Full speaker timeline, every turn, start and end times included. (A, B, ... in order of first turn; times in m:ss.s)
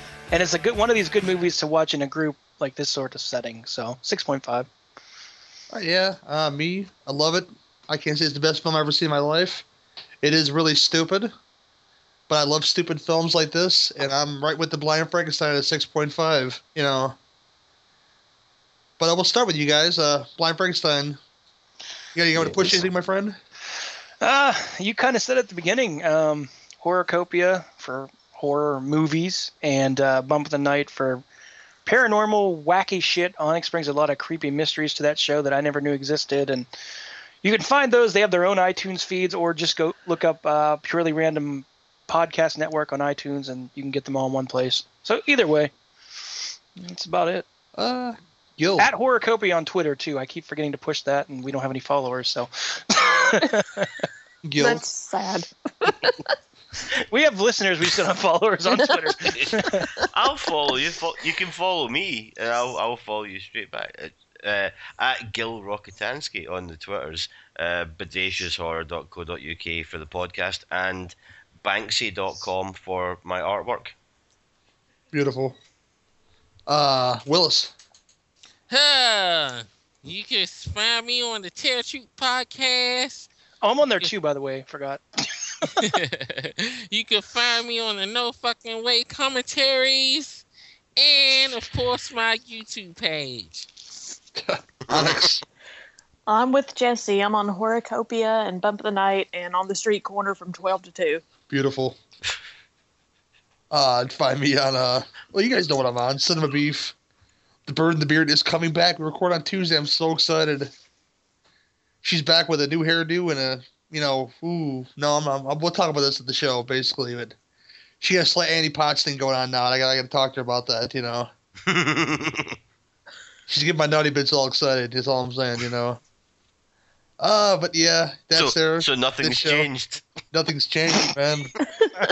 0:00.3-0:04.7 A
0:05.7-0:09.6 B
0:10.2-0:11.3 B
0:12.3-0:17.2 B
0:19.0-0:21.2 B
0:22.1-0:23.4 B
0:22.3-0:22.8 C
0:24.2-0:31.2 A
0:31.8-0:36.7 A
0:37.4-0:45.7 A
0:46.7-0:47.4 A
0:47.8-0:48.9 B
0:48.8-0:54.0 A
0:54.4-0:54.8 B
0:54.6-0:56.3 D
0:57.1-0:59.9 A
0:59.3-1:13.9 C
1:15.1-1:15.6 B
1:16.7-1:17.7 B
1:18.7-1:23.3 E
1:23.6-1:25.8 A
1:25.8-1:30.4 E
1:31.0-1:33.7 E
1:34.4-1:35.4 B
1:36.3-1:41.2 D
1:41.5-1:42.0 B
1:43.7-1:46.9 B
1:47.6-1:50.7 B
1:52.0-1:57.3 B
1:58.0-2:01.3 B
2:01.6-2:02.6 C
2:03.5-2:06.0 B
2:07.2-2:09.7 B
2:08.3-2:10.0 C
2:10.3-2:11.5 B